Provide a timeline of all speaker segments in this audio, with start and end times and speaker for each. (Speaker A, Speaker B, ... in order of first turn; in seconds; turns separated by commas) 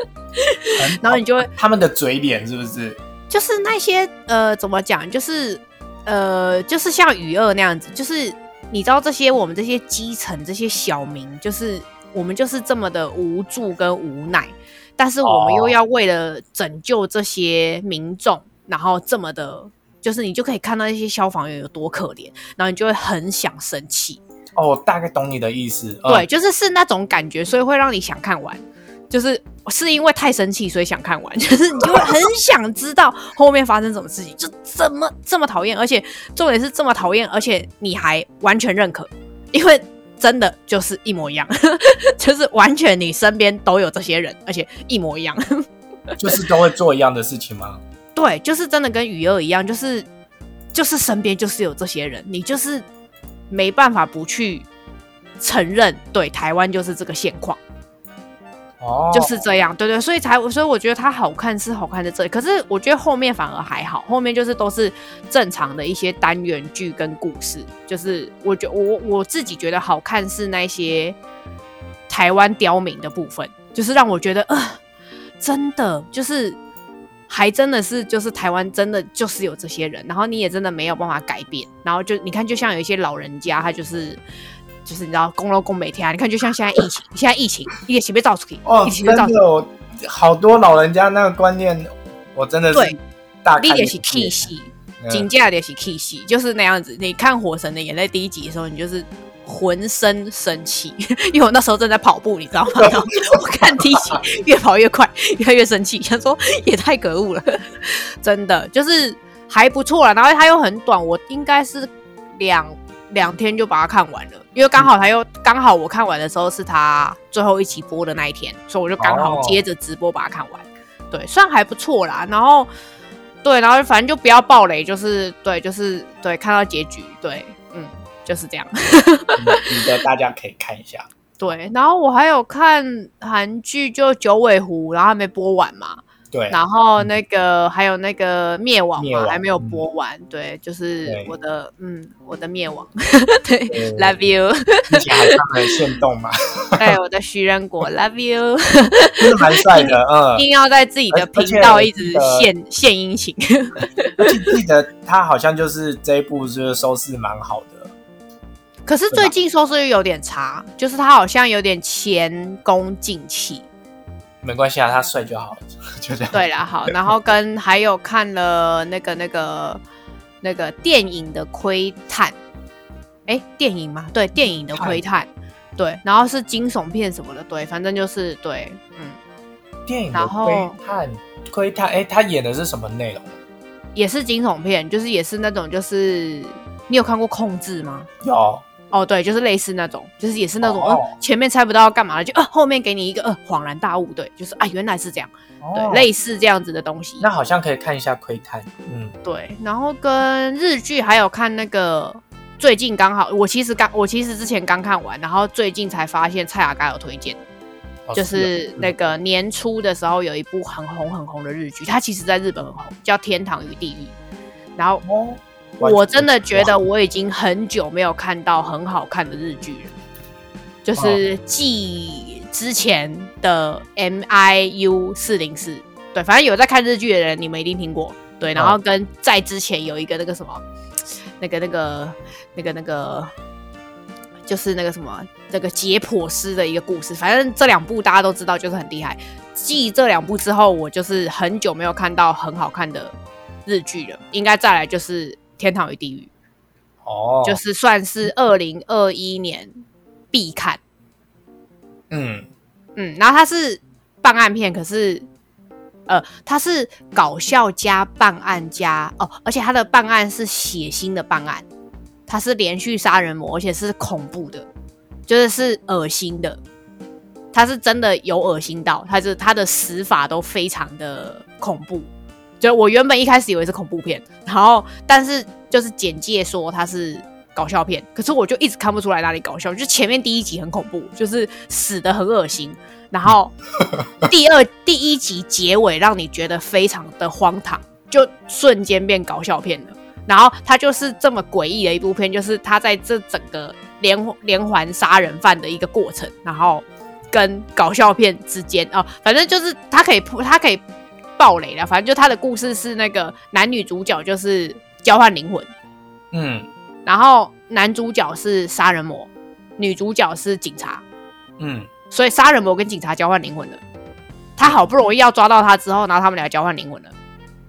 Speaker A: 0.4-1.5, Speaker B: 0.8-3.0, Speaker A: 3.3-24.2, Speaker B: 15.2-15.8, Speaker B: 24.6-26.3, Speaker A: 26.1-45.6, Speaker B: 46.2-47.8, Speaker A: 48.1-50.1, Speaker A: 50.7-52.9, Speaker A: 53.5-54.6, Speaker A: 55.4-57.6, Speaker B: 58.8-59.3, Speaker A: 59.1-71.2, Speaker A: 72.1-74.8, Speaker A: 75.4-76.6, Speaker A: 77.3-84.2, Speaker A: 84.8-89.4, Speaker B: 88.6-94.5, Speaker A: 93.6-122.7, Speaker B: 95.0-95.3, Speaker B: 102.8-104.2, Speaker B: 119.0-119.6, Speaker A: 123.4-129.7, Speaker B: 129.4-131.1, Speaker A: 131.4-145.4, Speaker B: 136.3-137.1, Speaker B: 139.0-139.8, Speaker B: 141.1-141.3, Speaker B: 143.7-144.2, Speaker B: 144.9-146.8, Speaker A: 146.8-154.5, Speaker B: 149.2-150.4, Speaker B: 151.1-152.5, Speaker B: 154.2-157.9, Speaker A: 158.9-163.7, Speaker B: 164.4-166.9, Speaker A: 166.3-169.8, Speaker A: 170.4-172.4, Speaker A: 173.3-179.2, Speaker B: 174.7-175.0, Speaker B: 179.9-183.4, Speaker A: 180.1-180.8, Speaker A: 183.9-188.1, Speaker B: 188.2-188.6, Speaker A: 188.9-197.3, Speaker B: 190.6-191.1, Speaker B: 195.6-196.1, Speaker B: 197.2-199.1, Speaker A: 199.2-207.4, Speaker B: 208.1-208.9, Speaker A: 208.1-214.1, Speaker A: 214.8-215.0, Speaker B: 215.0-216.8, Speaker A: 215.8-219.9, Speaker A: 220.8-230.6, Speaker B: 221.0-221.2, Speaker A: 231.4-233.3, Speaker A: 234.5-243.1, Speaker A: 243.7-246.3, Speaker B: 247.1-247.6, Speaker A: 247.4-249.7, Speaker A: 250.3-250.8, Speaker B: 252.1-252.5, Speaker A: 252.9-255.3, Speaker A: 256.1-261.6, Speaker A: 262.3-264.7, Speaker A: 265.3-266.6, Speaker A: 267.5-272.1, Speaker A: 272.6-283.6, Speaker A: 284.2-300.8, Speaker A: 301.4-305.7, Speaker B: 306.3-306.7, Speaker A: 307.1-311.0, Speaker B: 311.6-311.9, Speaker A: 312.1-313.8, Speaker A: 314.6-317.1